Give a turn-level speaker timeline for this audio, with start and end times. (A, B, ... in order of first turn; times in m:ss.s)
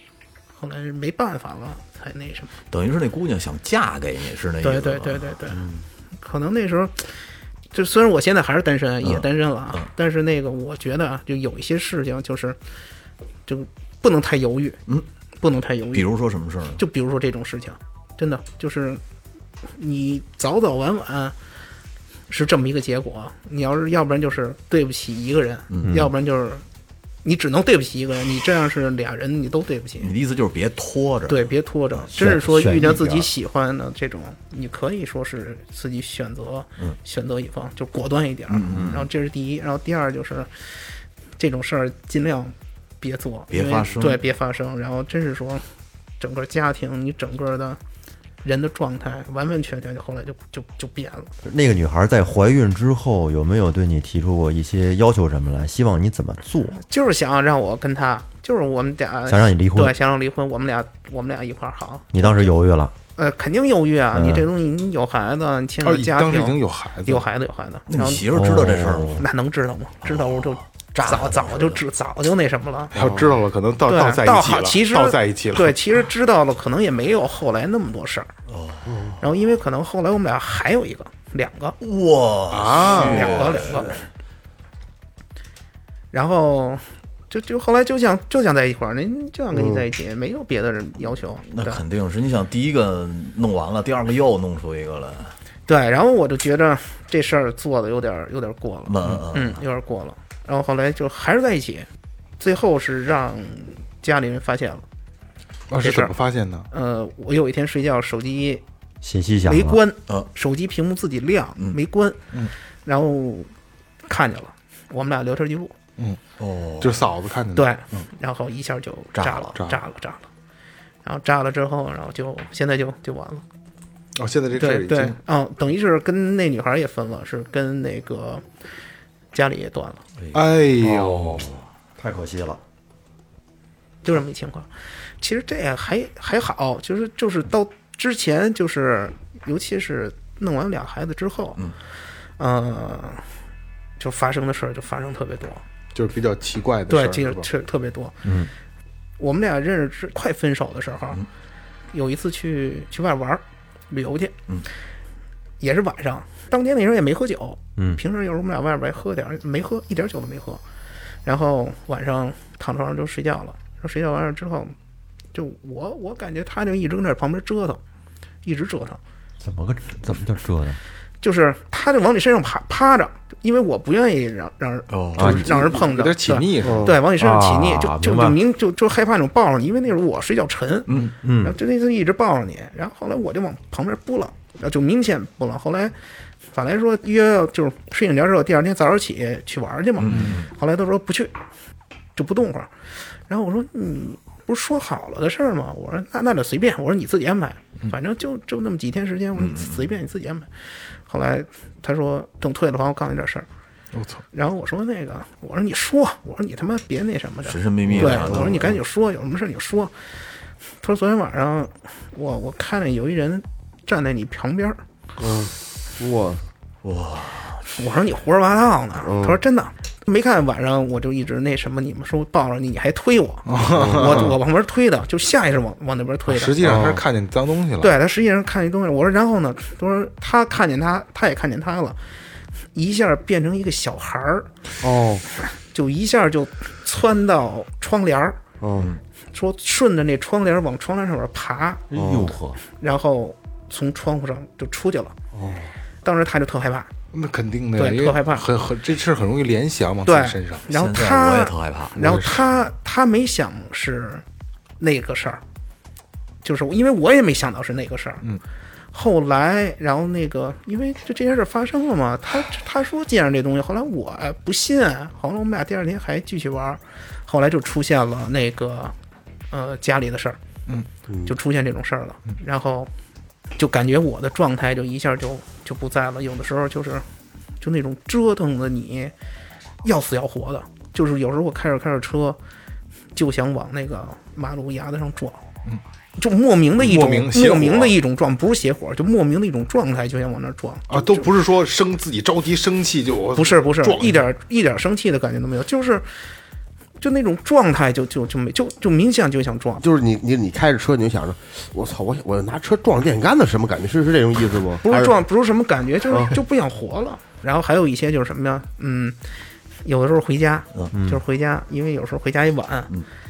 0:00.6-0:02.5 A
0:02.7-0:05.4 B
0:04.6-0:05.7 A
0:06.2-0:07.2 A
0:07.7-0:12.6 A
0:09.0-0:09.9 B
0:13.5-0:14.8 A
0:15.4-0:16.1 A
0:15.9-0:16.8 B
0:16.8-0:19.0 A
0:19.8-0:21.4 A
0:22.3-0:26.6 A
0:25.7-0:26.0 B
0:25.8-0:26.1 C
0:27.2-0:30.1 A
0:30.0-0:31.5 B
0:31.3-0:40.5 A
0:32.1-0:33.3 C
0:38.5-0:39.1 B
0:41.4-0:45.6 A
0:43.5-0:44.2 B
0:46.2-0:47.8 A
0:48.4-0:51.3 A
0:51.4-0:56.8 C
0:56.8-1:02.5 A
0:59.3-1:00.0 C
1:02.1-1:02.9 C
1:03.2-1:08.2 A
1:04.1-1:04.5 C
1:05.8-1:07.3 D
1:07.9-1:09.2 B
1:08.3-1:09.2 C
1:09.2-1:13.0 A
1:10.0-1:11.8 B
1:12.9-1:15.8 D
1:13.0-1:13.4 E
1:13.9-1:18.3 A
1:18.5-1:19.2 B
1:18.9-1:19.1 E
1:19.2-1:21.8 A
1:21.8-1:24.0 B
1:22.5-1:23.9 D
1:22.8-1:24.0 A
1:26.1-1:31.8 A
1:29.5-1:29.8 E
1:31.4-1:35.4 B
1:35.7-1:41.9 A
1:38.9-1:39.6 B
1:42.4-1:44.8 A
1:45.7-1:46.7 D
1:45.8-1:46.2 A
1:46.7-1:48.6 A
1:49.0-1:49.8 C
1:49.5-1:52.2 A
1:52.8-1:53.5 A
1:54.1-1:55.8 A
1:56.4-1:57.0 B
1:56.8-1:57.7 D
1:57.6-2:00.3 A
1:59.2-1:59.5 B
1:59.6-1:59.8 D
2:01.0-2:03.4 A
2:04.2-2:05.2 D
2:04.6-2:08.4 A
2:09.3-2:10.0 A
2:10.3-2:11.5 D
2:10.8-2:12.6 C
2:14.0-2:14.7 A
2:15.2-2:21.6 A
2:22.4-2:23.3 A
2:24.0-2:25.6 A
2:25.9-2:27.5 D
2:26.9-2:28.3 A
2:28.2-2:28.5 C
2:29.2-2:31.2 A
2:31.9-2:34.4 A
2:35.6-2:40.6 A
2:41.2-2:44.8 A
2:45.3-2:47.8 A
2:48.4-2:49.0 A
2:49.4-2:50.8 C
2:51.2-3:06.0 A
2:54.9-2:55.5 B
2:55.2-2:55.5 C
2:55.2-2:56.9 D
2:56.6-2:56.9 E
2:57.2-2:58.4 C
3:01.2-3:01.6 C
3:06.5-3:11.3 A
3:10.0-3:10.5 B
3:10.1-3:10.4 D
3:12.2-3:20.5 A
3:19.4-3:19.8 B
3:21.1-3:23.5 A
3:23.9-3:24.2 D
3:24.3-3:29.9 A
3:27.5-3:28.8 B
3:28.0-3:28.6 E
3:30.8-3:34.8 A
3:35.2-3:36.4 E
3:36.8-3:37.6 B
3:37.7-3:46.9 A
3:39.0-3:39.4 E
3:43.5-3:44.4 D
3:46.3-3:48.0 D
3:47.8-3:52.0 A
3:52.8-3:54.5 A
3:54.8-3:55.2 E
3:55.4-3:58.4 A
3:58.6-3:58.9 E
3:59.3-4:01.9 A
4:01.9-4:02.6 C
4:01.9-4:02.3 E
4:02.8-4:05.2 A
4:06.0-4:06.9 A
4:07.1-4:10.7 D
4:07.8-4:08.4 A
4:10.0-4:14.2 A
4:10.7-4:12.5 B
4:14.8-4:15.4 A
4:16.4-4:18.2 A
4:18.9-4:29.0 A
4:29.5-4:30.4 A
4:31.3-4:32.9 A
4:33.6-4:37.1 A
4:37.6-4:39.1 A
4:39.8-4:42.4 A
4:43.2-4:45.4 A
4:46.2-4:51.3 A
4:46.8-4:48.0 D
4:50.9-4:54.2 D
4:53.4-4:56.1 A
4:57.0-4:59.8 A
4:59.8-5:05.2 E
5:04.8-5:09.2 A
5:06.1-5:06.4 E
5:09.8-5:12.9 A
5:10.9-5:11.2 C